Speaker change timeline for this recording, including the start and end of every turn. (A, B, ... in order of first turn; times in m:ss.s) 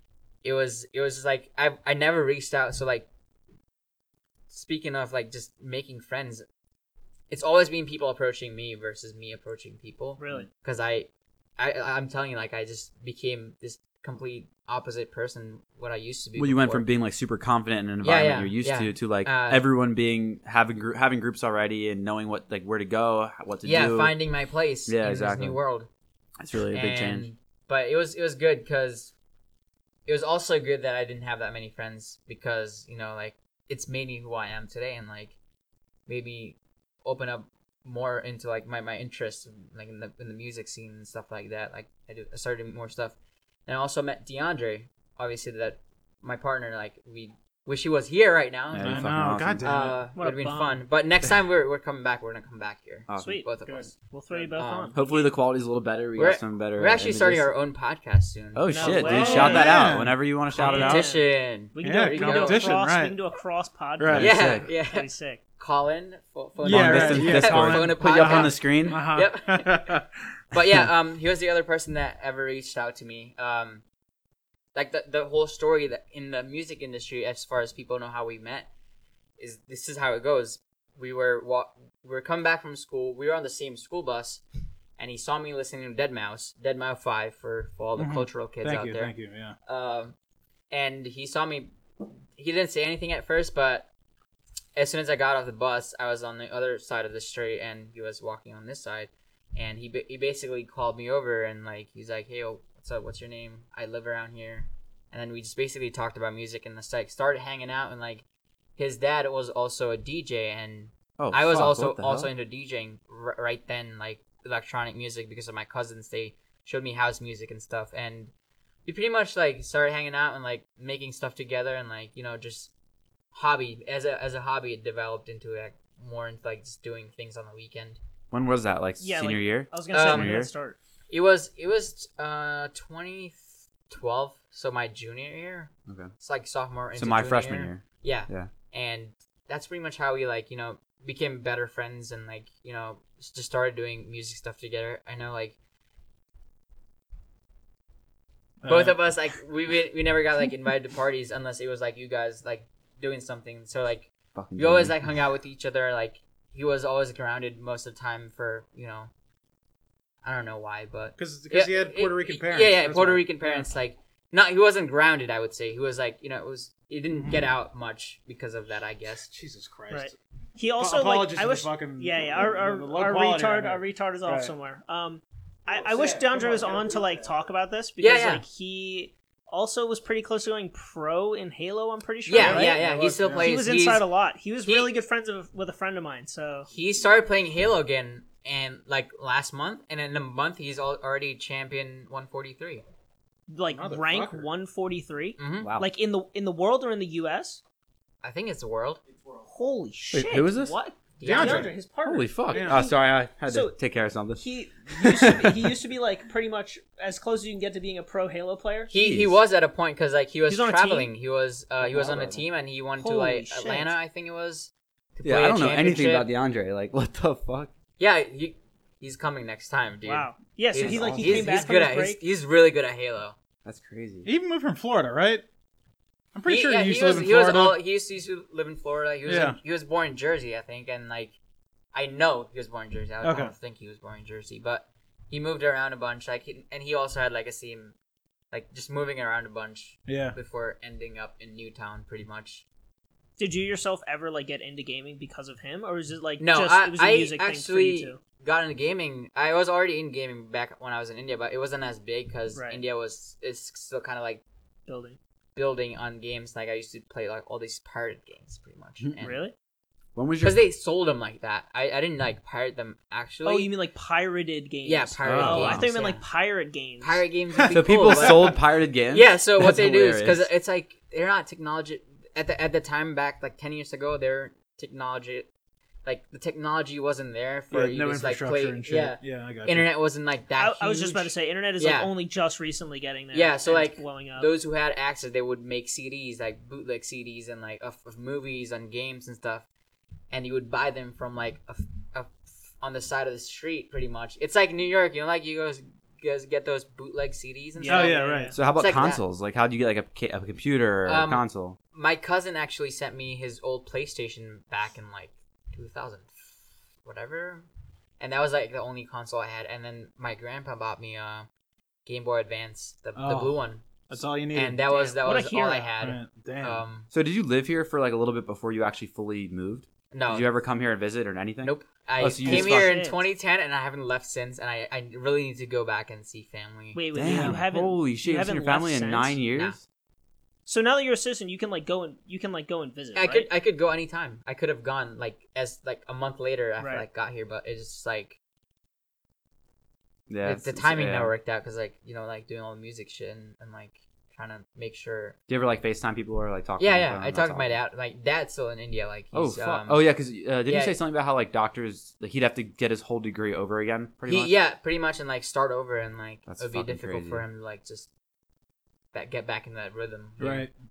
0:00.4-0:03.1 A
0:04.5-0:06.4 A
0:07.3-0:16.8 A
0:10.2-0:10.5 B
0:16.4-0:24.1 C
0:18.0-0:19.6 A
0:23.6-0:25.9 A
0:24.9-0:25.6 C
0:26.4-0:27.3 C
0:26.7-0:29.1 A
0:30.0-0:35.4 A
0:36.1-0:43.2 A
0:43.7-0:53.9 A
0:48.7-0:49.7 C
0:48.8-0:50.0 D
0:50.2-0:50.8 B
0:53.1-0:53.4 C
0:53.2-0:55.1 B
0:53.6-0:54.6 D
0:54.6-0:54.9 A
0:54.9-0:57.5 C
0:56.2-0:59.6 A
0:58.5-1:01.0 C
0:58.7-0:59.8 B
0:58.8-1:00.1 D
1:00.5-1:05.4 B
1:00.7-1:02.8 A
1:01.8-1:03.2 D
1:04.0-1:04.3 D
1:04.0-1:04.7 C
1:04.2-1:05.1 A
1:05.6-1:09.9 A
1:06.6-1:10.1 D
1:06.6-1:09.0 C
1:10.5-1:13.8 A
1:14.7-1:18.7 A
1:19.4-1:24.4 A
1:25.0-1:29.1 A
1:28.0-1:29.6 D
1:29.6-1:30.1 A
1:30.7-1:33.9 A
1:34.8-1:48.2 A
1:48.8-1:58.3 A
1:51.2-1:52.3 C
1:58.8-2:02.7 A
2:03.3-2:08.0 A
2:08.3-2:10.5 C
2:09.0-2:10.8 B
2:09.9-2:10.4 A
2:11.1-2:25.6 A
2:17.0-2:18.5 C
2:28.6-2:29.0 D
2:28.6-2:39.1 A
2:34.3-2:35.1 C
2:40.2-2:49.3 A
2:41.2-2:43.7 D
2:47.1-2:47.5 D
2:49.2-2:50.2 D
2:49.9-3:02.8 B
2:50.8-2:54.5 D
2:55.7-2:57.3 D
2:58.0-2:58.4 A
3:02.2-3:04.0 A
3:02.3-3:03.5 D
3:03.4-3:06.7 B
3:04.6-3:04.9 A
3:06.7-3:12.8 A
3:13.5-3:17.6 B
3:13.7-3:14.5 D
3:15.4-3:15.7 A
3:15.6-3:15.9 C
3:18.2-3:19.0 A
3:19.4-3:23.8 B
3:20.1-3:20.8 C
3:21.2-3:21.7 A
3:21.2-3:21.7 D
3:22.0-3:25.7 C
3:22.5-3:22.9 D
3:24.4-3:28.9 B
3:28.9-3:36.3 A
3:28.9-3:29.4 C
3:30.5-3:31.1 B
3:31.8-3:32.4 C
3:33.0-3:33.9 B
3:35.2-3:37.7 C
3:38.0-3:43.4 A
3:40.0-3:42.2 B
3:40.8-3:41.4 C
3:40.8-3:41.4 D
3:43.6-3:44.3 C
3:44.2-3:45.4 D
3:46.3-3:47.8 D
3:46.5-3:51.4 A
3:49.2-3:49.6 D
3:51.9-3:57.9 A
3:53.2-3:53.5 D
3:58.5-4:02.6 A
4:00.1-4:00.4 D
4:03.4-4:08.2 B
4:06.4-4:14.4 A
4:12.5-4:12.8 B
4:14.9-4:15.2 B
4:15.6-4:19.4 A
4:19.2-4:19.5 B
4:20.1-4:20.6 C
4:20.4-4:23.7 A
4:23.4-4:27.2 B
4:24.8-4:26.2 A
4:25.2-4:25.9 C
4:27.0-4:28.6 A
4:27.5-4:28.6 D
4:27.7-4:30.5 C
4:29.1-4:35.5 A
4:36.0-4:42.1 A
4:37.7-4:39.9 D
4:40.6-4:44.5 B
4:43.3-4:49.7 A
4:50.3-4:58.2 A
4:57.8-4:58.6 B
4:57.9-4:58.5 D
4:58.5-5:01.8 C
4:58.7-4:59.2 A
5:01.0-5:06.3 A
5:07.0-5:07.6 A
5:08.2-5:11.5 A
5:12.0-5:13.8 A
5:13.2-5:13.6 D
5:14.1-5:14.8 D
5:14.5-5:17.1 A
5:14.9-5:15.9 B
5:16.0-5:16.8 D
5:17.1-5:22.9 C
5:20.1-5:20.5 A
5:21.6-5:27.0 A
5:22.4-5:23.2 B
5:26.9-5:29.4 B
5:27.1-5:29.8 C
5:27.3-5:27.6 D
5:29.5-5:29.8 A
5:30.6-5:33.5 B
5:33.1-5:38.4 A
5:36.8-5:37.0 B
5:40.3-5:41.3 C
5:40.4-5:45.4 A
5:45.5-5:47.8 C
5:46.8-5:50.0 A
5:49.3-5:54.5 C
5:50.6-5:51.0 A
5:54.2-5:58.1 A
5:56.5-5:57.4 C
5:59.1-6:00.7 A
6:00.4-6:00.7 D